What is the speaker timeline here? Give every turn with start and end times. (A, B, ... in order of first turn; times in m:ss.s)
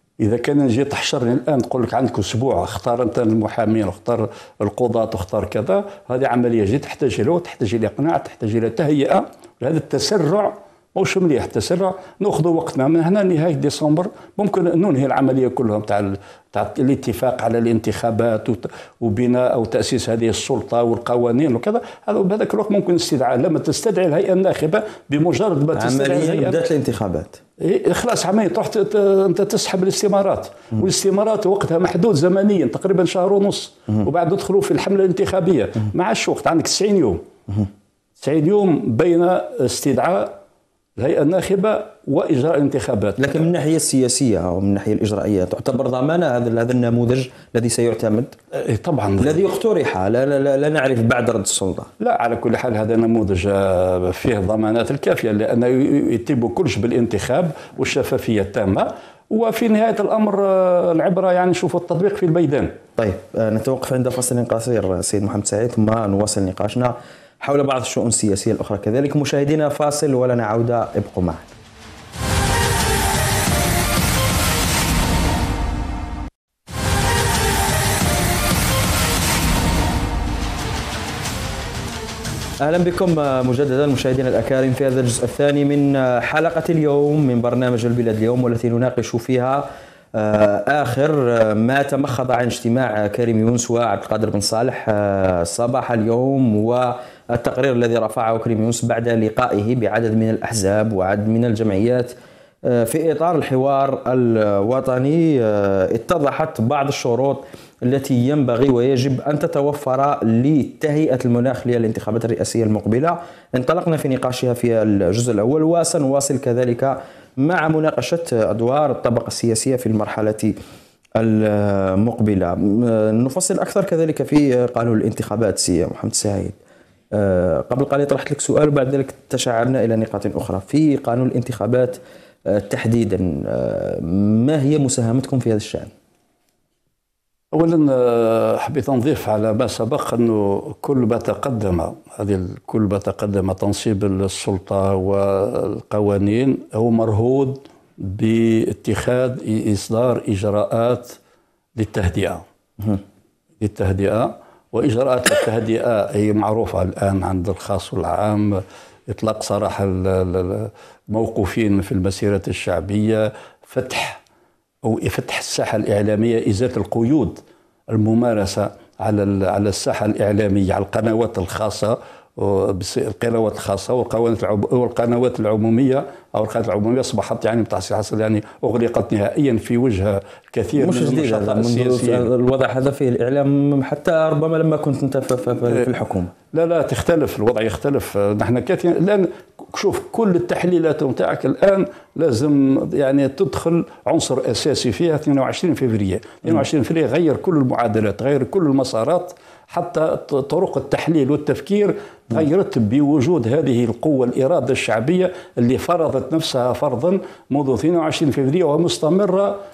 0:00.2-0:26.6 A
0:25.8-0:27.4 B
0:27.6-0:37.2 A
0:38.2-0:40.4 A
0:41.0-0:43.5 A
0:43.2-0:48.3 B
0:48.6-0:49.4 A
0:49.2-0:51.9 B
0:52.0-1:02.7 A
1:03.0-1:11.5 B
1:22.6-1:42.1 B
1:42.6-2:00.6 B
2:01.2-2:06.6 B
2:07.1-2:15.9 B
2:17.5-2:31.2 A
2:31.8-2:32.4 A
2:33.6-2:44.2 A
2:44.8-3:02.3 A
3:00.8-3:06.3 B
3:06.5-3:29.6 A